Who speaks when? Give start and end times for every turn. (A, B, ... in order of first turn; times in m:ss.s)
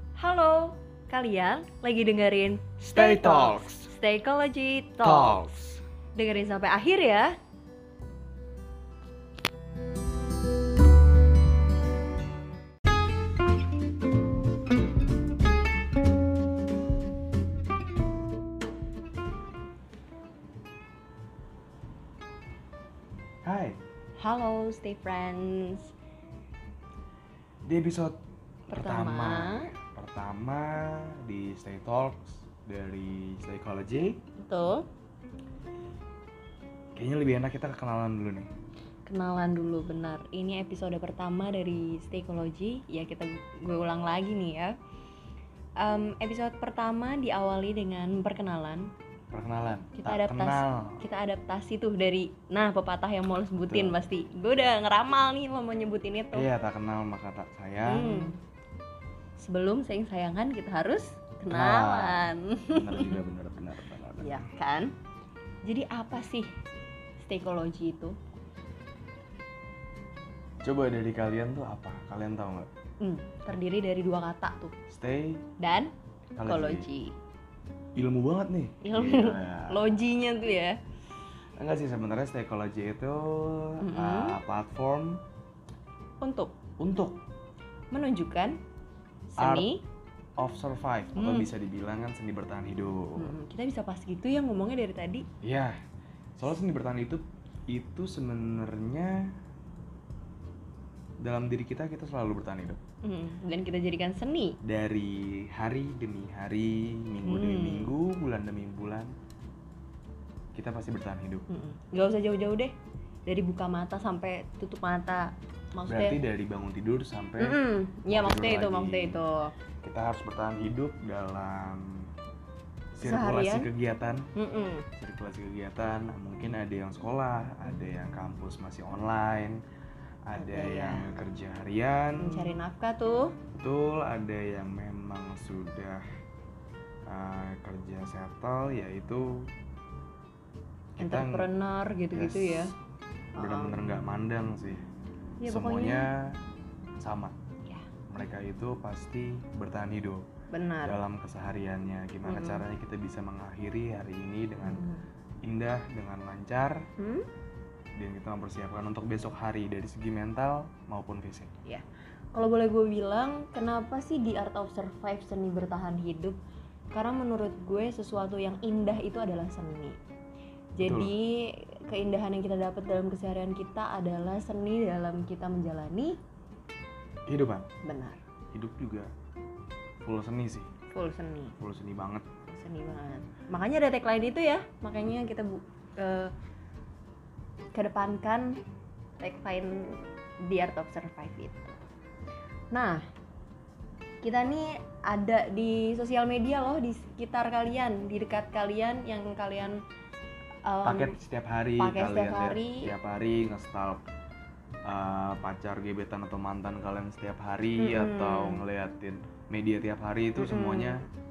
0:00.2-0:05.5 A
0:02.8-0:03.9 B
0:05.0-0:05.8 B
0:06.2-0:07.4 A
0:23.4-0:23.8 B
0:24.2-0:25.9 A
0:27.7-0:28.2 B
0:28.7-0:34.2 B
0:28.7-0:29.7 A
0:34.4-0:34.9 A
0:37.0-0:38.5 B
0:39.1-0:44.8 A
0:45.8-0:48.9 A
0:49.3-0:51.0 B
0:50.0-0:56.5 A
0:53.6-0:54.0 B
0:56.3-0:58.4 B
0:57.9-0:58.4 A
0:59.4-1:03.2 A
1:01.5-1:04.4 B
1:04.2-1:04.9 A
1:05.6-1:06.5 A
1:07.2-1:08.2 A
1:10.6-1:12.7 B
1:13.0-1:14.7 A
1:14.9-1:15.4 B
1:15.6-1:15.9 A
1:16.4-1:16.9 B
1:16.4-1:17.2 A
1:18.0-1:19.9 B
1:18.8-1:20.8 A
1:21.6-1:25.2 B
1:23.8-1:24.4 A
1:26.2-1:26.6 A
1:26.8-1:27.2 B
1:27.9-1:28.6 A
1:29.3-1:29.8 A
1:29.4-1:29.7 B
1:30.4-1:33.4 B
1:31.2-1:31.5 A
1:33.2-1:35.3 A
1:35.4-1:35.8 B
1:36.4-1:39.3 B
1:41.2-1:42.8 B
1:43.0-1:44.6 A
1:44.6-1:49.1 B
1:47.2-1:47.9 A
1:50.5-1:51.5 B
1:51.5-1:52.8 A
1:53.3-1:56.2 A
1:55.9-1:59.2 B
1:57.4-1:59.5 A
1:59.8-2:02.1 B
2:03.0-2:04.3 B
2:03.0-2:03.7 A
2:04.4-2:04.9 A
2:05.0-2:09.6 B
2:10.3-2:12.6 B
2:10.4-2:11.1 A
2:12.2-2:13.4 A
2:13.5-2:16.0 B
2:17.1-2:19.5 B
2:21.0-2:21.5 B
2:21.0-2:22.7 A
2:22.1-2:22.7 B
2:23.4-2:23.8 A
2:23.4-2:24.8 B
2:25.4-2:26.1 A
2:25.5-2:26.4 B
2:27.0-2:27.4 B
2:28.1-2:30.3 B
2:30.5-2:31.0 A
2:30.8-2:34.8 B
2:32.2-2:32.6 A
2:34.6-2:35.0 A
2:35.4-2:36.9 B
2:37.0-2:37.3 A
2:38.0-2:41.5 B
2:41.6-2:46.4 A
2:46.9-2:50.0 A
2:50.8-2:56.2 A
2:50.8-2:51.1 B
2:57.3-2:57.7 B
2:57.8-2:58.2 A
2:58.5-2:59.1 B
3:00.0-3:00.7 B
3:00.9-3:01.5 A
3:01.6-3:02.3 B
3:02.5-3:06.3 A
3:07.7-3:08.6 A
3:09.2-3:11.8 A
3:12.7-3:13.0 A
3:14.2-3:19.8 A
3:20.6-3:21.2 A
3:20.8-3:24.0 B
3:21.8-3:22.9 A
3:24.9-3:31.0 B
3:27.8-3:28.6 A
3:30.4-3:31.1 A